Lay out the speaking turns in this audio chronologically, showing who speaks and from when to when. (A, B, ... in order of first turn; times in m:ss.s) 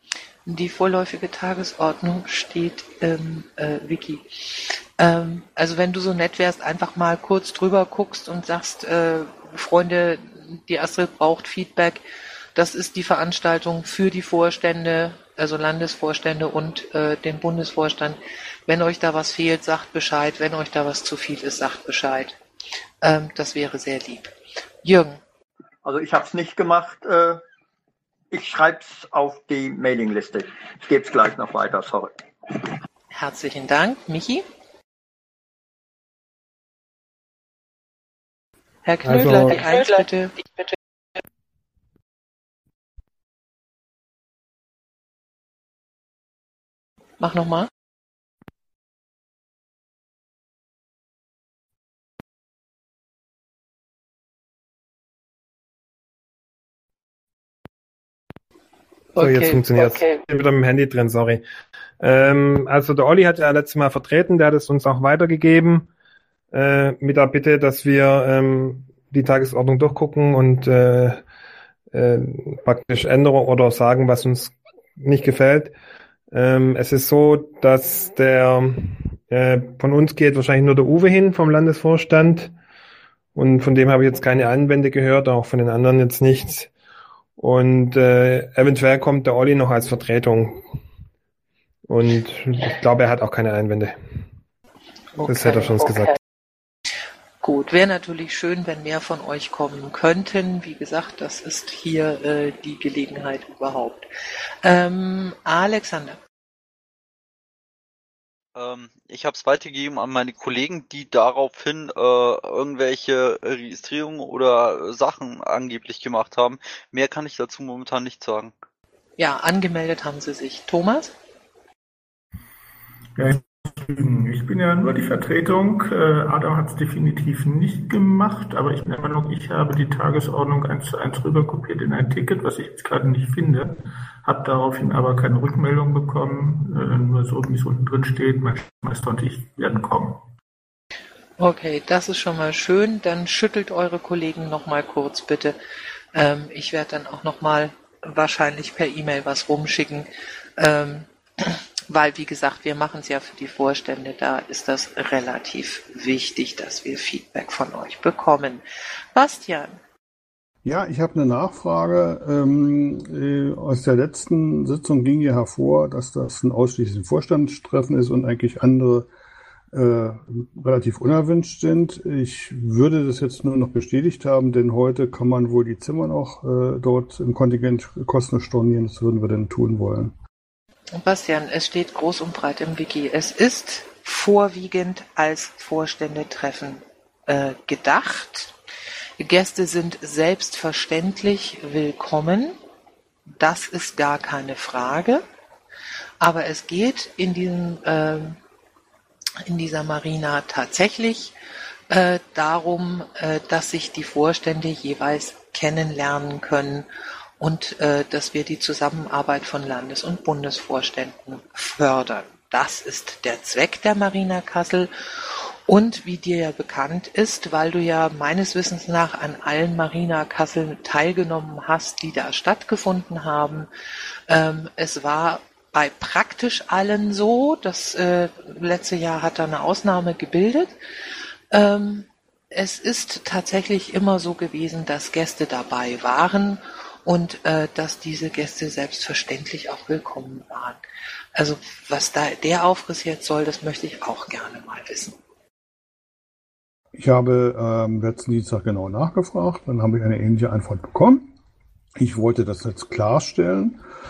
0:00.4-0:12.0 A
0:12.5-0:22.4 A
0:23.0-0:24.3 A
0:24.8-0:25.2 A
0:25.8-0:27.4 B
0:28.3-0:32.7 B
0:33.1-0:34.4 A
0:38.8-0:40.4 A
0:39.0-0:39.6 C
0:47.2-0:47.7 A
0:59.2-1:00.0 A
0:59.2-1:01.4 C
1:02.0-1:05.9 C
1:06.5-1:11.2 C
1:11.9-1:15.7 C
1:16.3-1:22.5 C
1:23.3-1:26.7 C
1:27.4-1:30.6 C
1:31.9-1:34.0 C
1:35.2-1:35.8 A
1:35.3-1:36.2 C
1:37.4-1:44.1 A
1:44.6-1:46.2 A
1:48.5-1:58.5 D
1:59.2-2:01.1 A
2:03.2-2:20.2 E
2:21.4-2:25.6 A
2:26.1-2:39.8 A
2:40.6-2:49.1 F
2:49.7-3:00.1 F
3:00.9-3:08.5 A
3:09.2-3:12.6 A
3:13.4-3:15.2 A
3:16.2-3:18.4 A
3:19.4-3:21.3 A
3:21.9-3:26.9 A
3:27.4-3:43.7 A
3:44.3-3:50.8 A
3:51.5-4:00.8 A
4:01.3-4:05.2 A
4:06.9-4:11.3 F
4:12.0-4:13.8 F